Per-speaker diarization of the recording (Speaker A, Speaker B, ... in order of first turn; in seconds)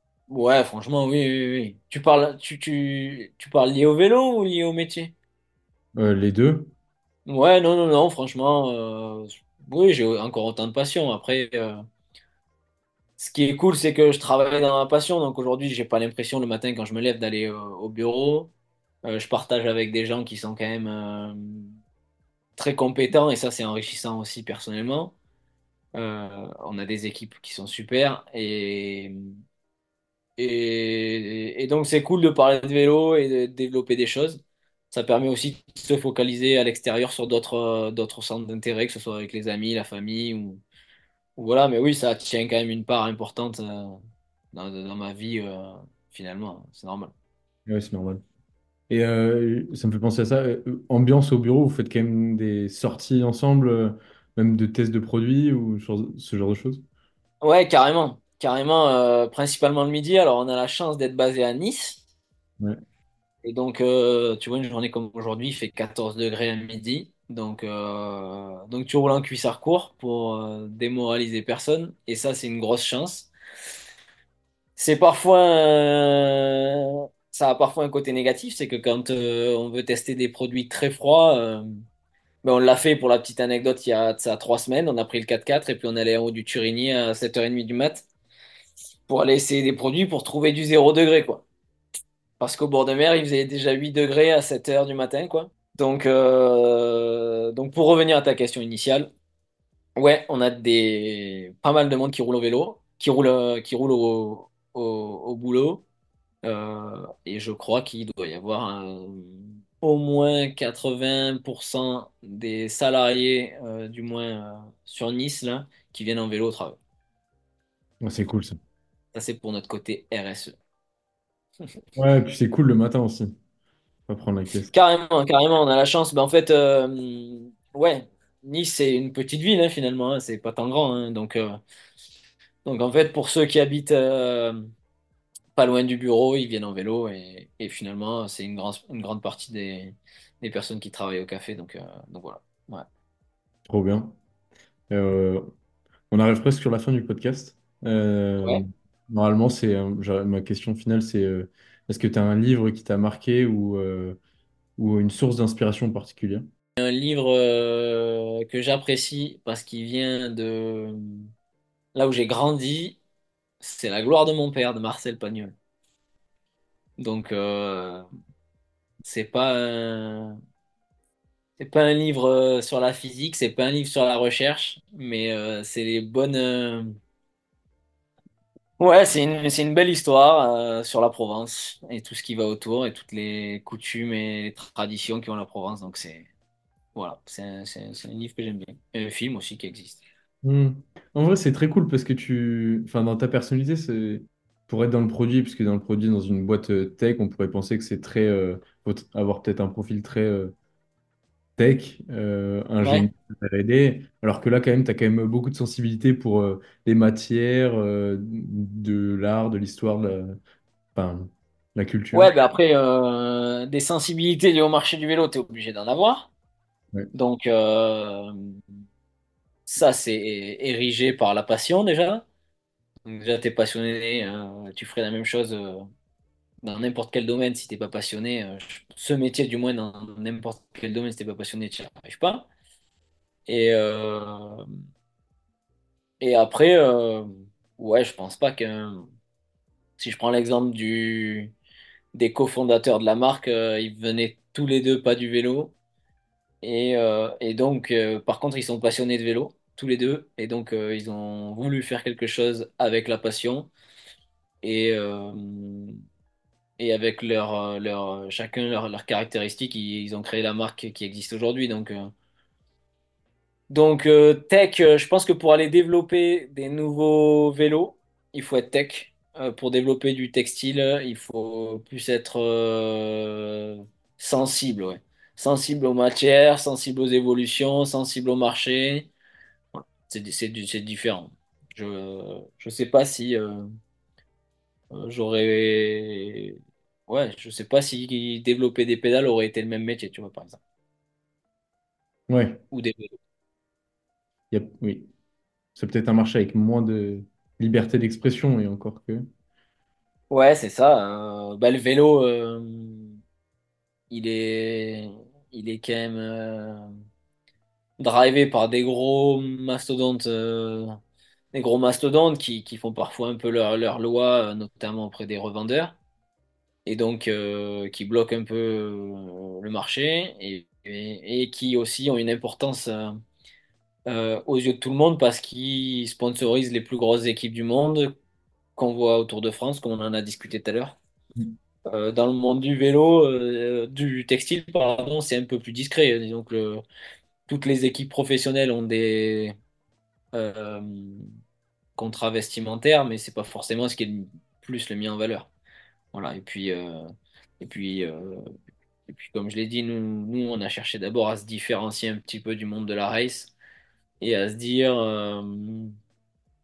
Speaker A: 0.3-5.1, 7.3-11.8, 13.2-18.5, 19.1-21.8, 22.6-25.1, 25.9-29.1, 30.4-40.6, 41.4-44.0, 44.5-47.1, 57.4-62.0, 63.4-73.3, 74.8-81.7, 82.4-88.1, 89.1-91.5, 92.4-99.1, 100.0-105.8, 106.4-116.8, 119.1-120.6, 124.7-131.6, 132.6-134.7, 135.6-142.8, 156.8-161.3, 161.9-163.0, 163.6-165.6, 167.0-168.1, 169.0-170.4, 171.6-177.0, 178.8-186.3, 186.9-190.0, 202.8-203.1, 212.1-216.3, 217.1-218.6, 219.7-222.2, 223.1-225.9, 226.6-232.5, 233.5-234.6, 236.2-239.0, 240.0-241.5, 242.1-245.8, 246.6-253.7, 254.6-255.9, 256.8-262.1, 263.7-279.1, 279.7-283.7, 284.9-290.6, 292.7-293.1, 300.3-303.2, 304.1-306.9, 308.0-310.9, 311.5-316.0, 316.9-323.2, 324.1-328.1, 328.8-331.0, 331.9-336.8, 337.5-339.6, 340.3-341.3, 342.0-345.5, 346.1-348.5, 349.1-353.5, 354.2-355.9
Speaker B: 6.0-6.7, 47.7-48.2, 48.9-56.8, 118.0-118.6, 122.0-123.3, 124.1-124.7, 143.7-144.2, 144.9-145.5, 146.1-154.2, 154.8-156.5, 190.4-200.5, 201.6-210.4, 210.9-212.3, 292.3-292.6, 294.5-295.1, 295.8-299.3